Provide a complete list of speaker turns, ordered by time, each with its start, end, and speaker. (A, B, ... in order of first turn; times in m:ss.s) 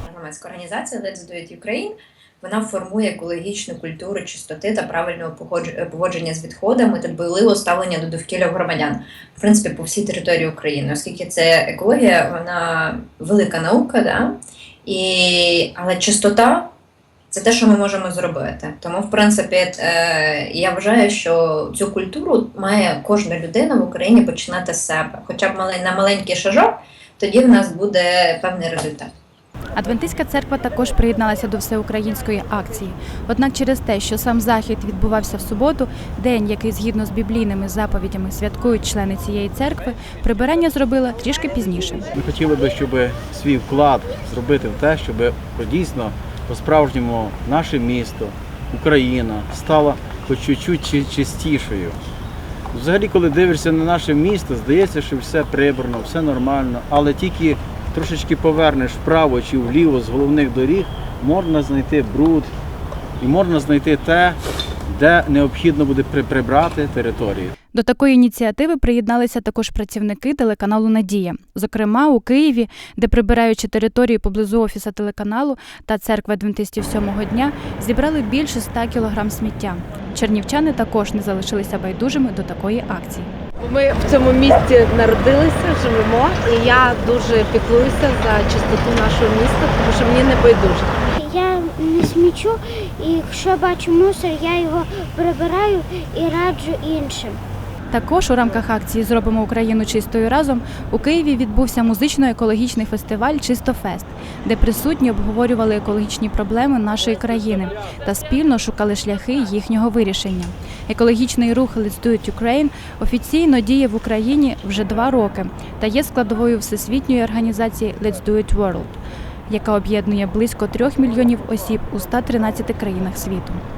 0:00.1-0:14.3 A
0:14.8-0:16.7 A
0:17.3-0:29.1 A
0:29.8-0:42.1 B
0:42.1-0:52.0 C
0:52.7-1:02.5 C
1:03.2-1:07.5 C
1:07.7-1:23.3 B
1:23.6-1:31.0 D
1:31.2-1:37.4 E
1:37.9-1:59.0 B
1:59.5-2:03.6 B